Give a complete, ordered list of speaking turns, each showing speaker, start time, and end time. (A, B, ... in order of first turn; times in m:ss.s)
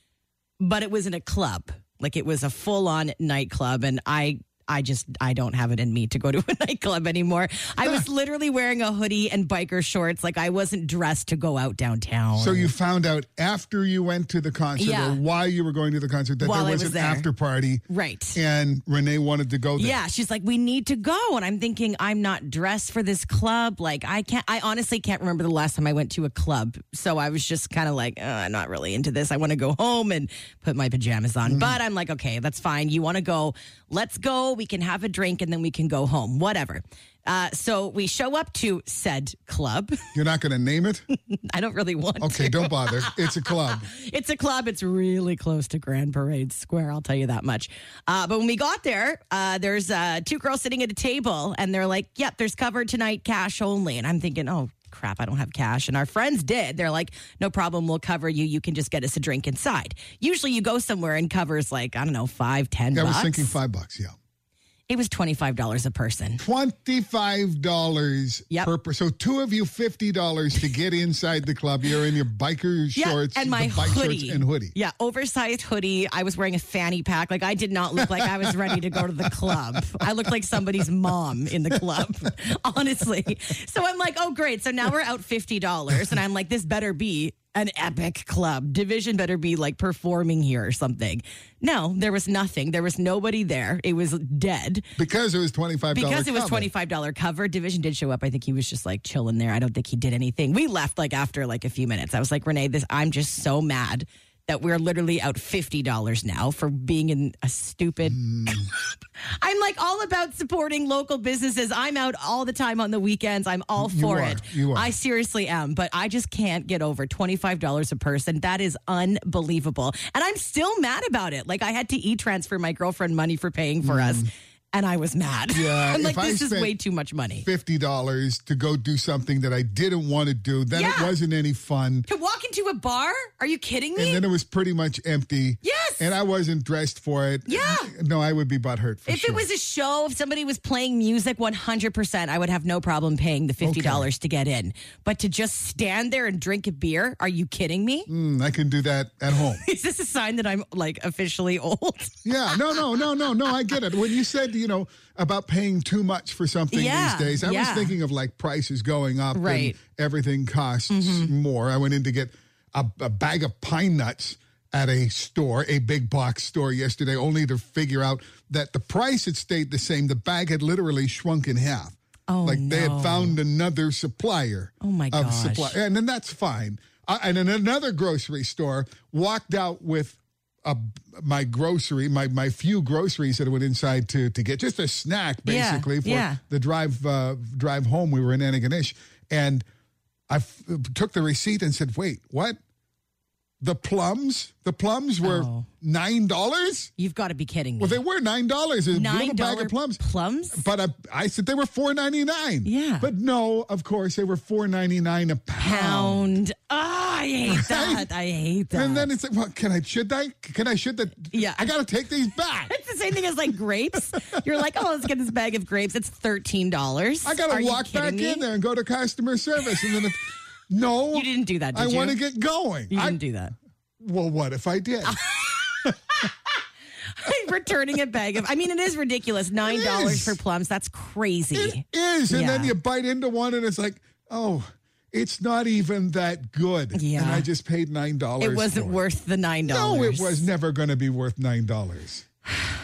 0:00.6-0:12.7 A
0:12.4-0:20.0 B
0:14.8-0:15.2 A
0:16.4-0:17.3 A
0:17.9-0:18.4 A
0:19.8-0:40.0 A
0:31.4-0:31.8 B
0:40.1-0:41.0 B
0:41.3-1:03.5 A
0:42.2-0:43.8 B
1:02.9-1:04.2 B
1:04.9-1:06.4 A
1:06.4-1:14.7 B
1:12.9-1:34.8 A
1:18.0-1:20.1 B
1:35.0-1:36.7 B
1:35.9-1:48.2 A
1:48.0-1:48.7 B
1:49.2-2:07.4 A
1:53.8-1:54.9 B
2:03.8-2:04.3 B
2:05.5-2:06.8 B
2:07.4-2:12.1 B
2:10.7-2:11.1 A
2:12.1-2:14.2 A
2:14.0-2:19.4 B
2:15.6-2:16.1 A
2:17.4-2:17.9 A
2:19.1-2:28.1 A
2:23.6-2:24.1 B
2:28.1-2:29.6 B
2:29.4-2:33.7 A
2:32.2-3:09.6 B
2:36.7-2:38.0 A
2:39.3-2:39.8 A
2:40.9-2:41.3 A
2:52.3-2:53.4 A
2:54.8-2:55.8 A
3:05.4-3:06.4 A
3:10.3-3:12.6 B
3:13.6-3:16.9 B
3:15.2-3:15.7 A
3:17.0-3:18.0 A
3:17.8-3:26.4 B
3:18.9-3:20.6 A
3:22.6-3:23.1 A
3:25.6-3:29.1 A
3:27.5-3:28.1 B
3:28.7-3:32.7 B
3:31.3-3:31.7 A
3:32.7-3:38.4 A
3:37.2-3:43.2 B
3:41.1-3:42.2 A
3:42.9-3:43.5 A
3:44.0-3:45.2 B
3:45.0-3:45.9 A
3:47.2-3:52.7 A
3:49.6-3:50.4 B
3:51.5-3:59.0 B
3:56.9-3:57.5 A
3:58.4-4:00.5 A
3:59.6-4:02.3 B